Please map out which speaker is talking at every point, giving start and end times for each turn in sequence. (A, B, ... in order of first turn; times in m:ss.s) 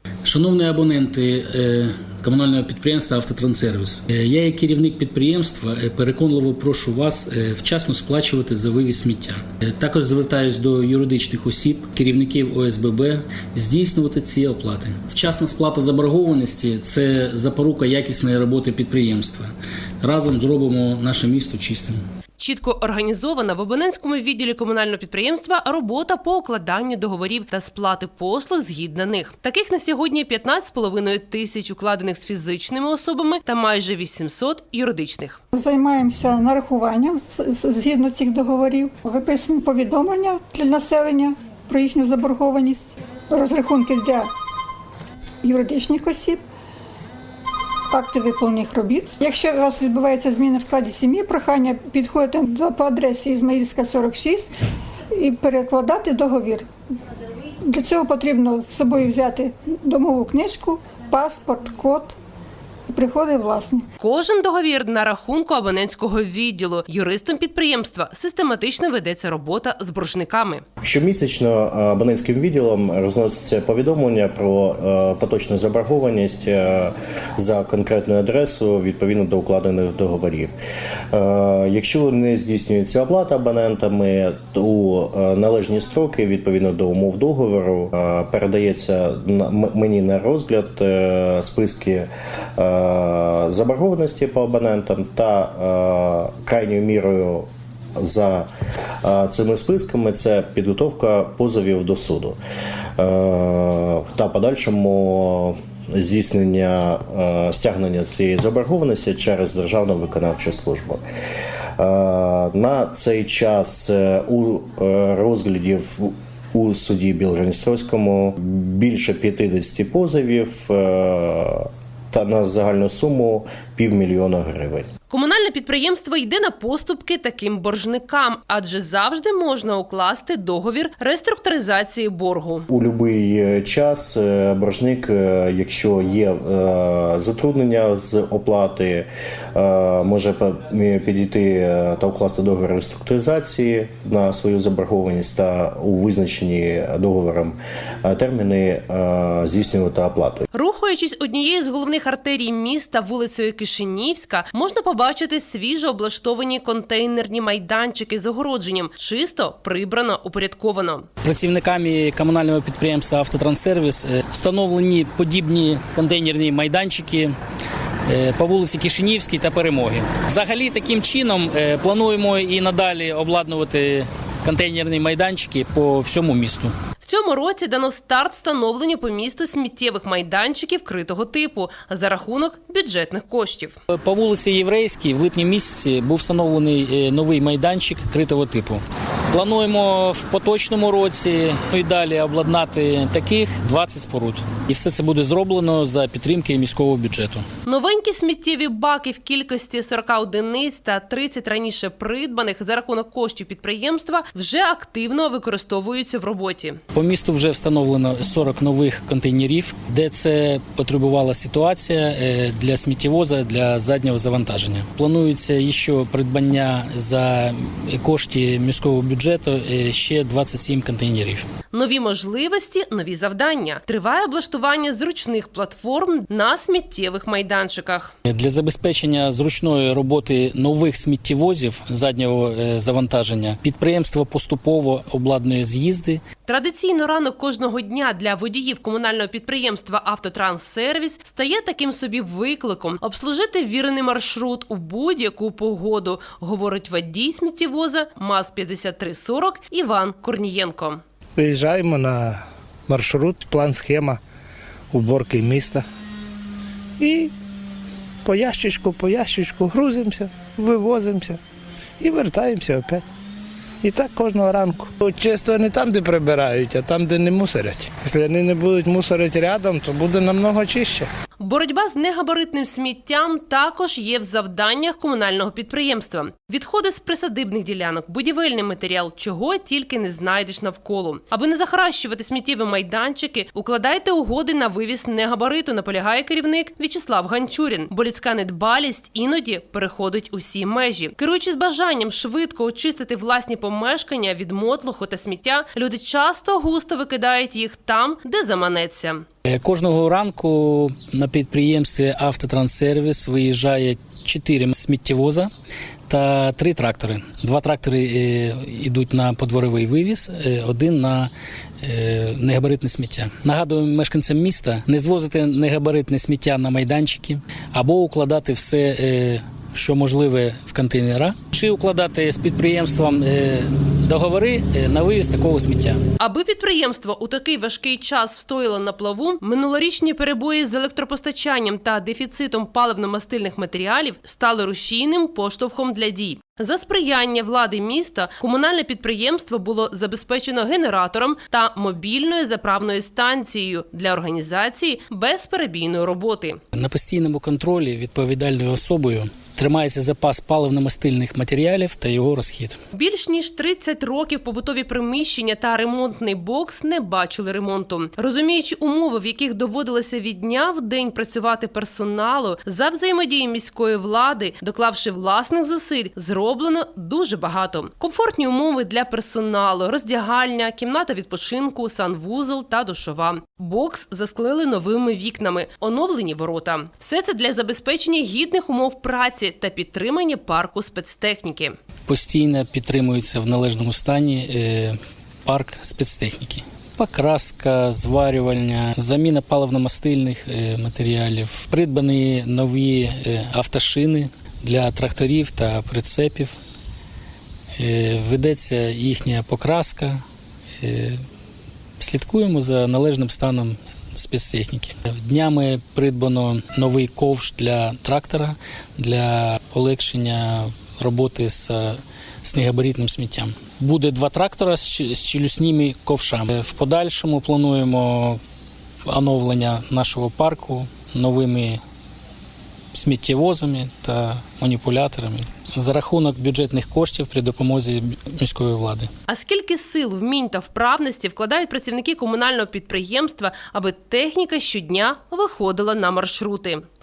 0:00.2-0:19.5 A
0:20.0-0:22.0 A
0:22.4-0:35.4 B
0:35.5-0:44.3 C
0:45.4-0:46.4 C
0:47.9-0:54.5 C
0:55.1-0:56.7 C
0:57.7-1:02.2 C
1:02.9-1:03.8 C
1:04.0-1:10.6 B
1:10.8-1:20.6 D
1:21.1-1:37.5 D
1:38.0-1:38.5 D
1:39.0-1:42.4 D
1:43.0-1:51.0 D
1:51.8-2:04.9 D
2:05.1-2:12.7 B
2:12.7-2:30.5 D
2:30.5-2:41.1 B
2:41.2-2:47.3 A
2:48.1-2:56.7 A
2:57.0-3:03.8 B
3:03.9-3:17.4 A
3:17.6-3:26.8 B
3:26.9-3:41.4 A
3:41.7-3:48.1 B
3:48.3-3:56.2 A
3:56.4-4:11.0 B
4:11.4-4:12.3 E
4:12.9-4:14.2 E
4:14.9-4:15.8 E
4:17.0-4:17.3 E
4:18.3-4:21.4 E
4:22.0-4:23.0 E
4:23.8-4:31.1 E
4:31.4-4:59.2 B
4:59.4-5:05.5 A
5:06.1-5:11.3 A
5:11.8-5:26.0 A
5:26.2-5:46.6 B
5:46.7-5:52.8 A
5:52.9-6:21.8 B
6:22.1-6:36.6 A
6:37.8-6:40.2 A
6:40.8-6:41.2 A
6:42.0-6:58.4 A
6:59.1-7:01.8 A
7:02.9-7:09.1 A
7:09.3-7:16.8 B